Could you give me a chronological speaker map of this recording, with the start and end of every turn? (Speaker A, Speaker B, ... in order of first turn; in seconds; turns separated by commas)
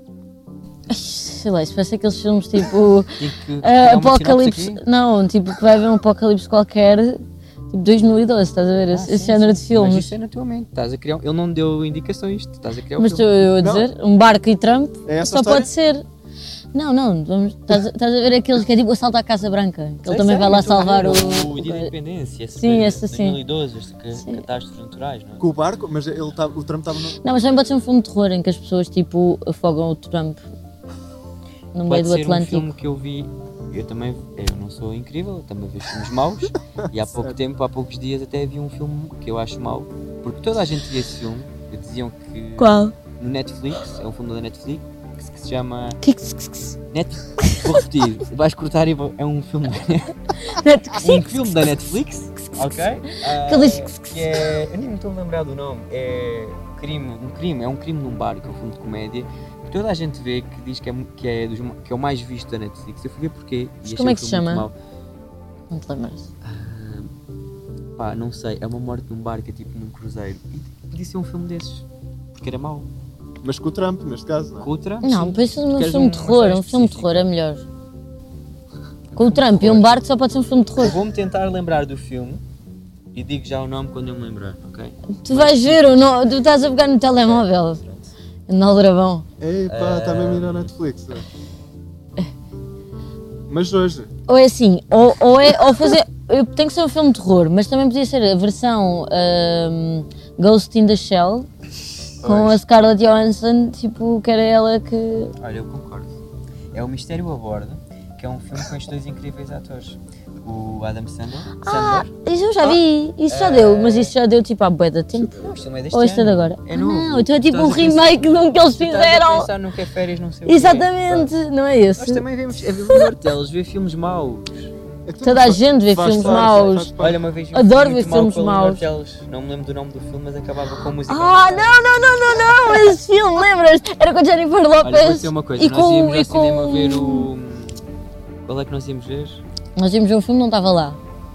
Speaker A: 0.9-10.1, Speaker B: 3.2-4.8, Speaker B: 8.9-13.4, Speaker A: 13.0-16.0, Speaker C: 13.6-13.9, Speaker C: 15.1-15.7, Speaker A: 16.7-21.9, Speaker B: 20.0-25.4, Speaker A: 22.6-23.4, Speaker A: 24.1-24.4, Speaker C: 25.4-27.2, Speaker A: 27.2-30.4, Speaker A: 31.7-32.8, Speaker B: 31.9-46.0, Speaker C: 37.0-37.4, Speaker A: 42.6-42.9, Speaker A: 46.0-46.8, Speaker B: 46.9-50.3, Speaker A: 47.4-47.7, Speaker A: 50.4-51.7, Speaker B: 51.0-64.7, Speaker A: 52.4-54.5, Speaker A: 63.8-64.7, Speaker A: 65.7-66.3, Speaker B: 66.4-67.1, Speaker B: 68.0-72.9, Speaker C: 73.4-74.7, Speaker B: 74.6-77.2, Speaker A: 75.0-77.7, Speaker B: 79.1-80.0, Speaker A: 79.2-81.0, Speaker B: 80.8-82.4, Speaker B: 83.1-88.1, Speaker A: 85.1-87.8, Speaker A: 88.5-89.3, Speaker C: 89.4-91.3, Speaker B: 89.7-90.7, Speaker C: 93.5-94.1, Speaker A: 94.3-101.5, Speaker B: 102.2-102.6, Speaker A: 102.2-105.3, Speaker B: 105.4-106.1, Speaker B: 106.7-112.1, Speaker A: 111.6-119.5, Speaker B: 112.6-114.1, Speaker C: 115.2-115.7, Speaker B: 115.3-121.3, Speaker A: 120.5-122.2, Speaker B: 122.0-124.7, Speaker C: 125.1-127.2, Speaker A: 125.2-126.9, Speaker B: 126.2-131.9, Speaker A: 127.5-128.8, Speaker A: 131.1-137.3, Speaker B: 134.8-137.9, Speaker B: 138.4-139.4, Speaker A: 139.8-141.0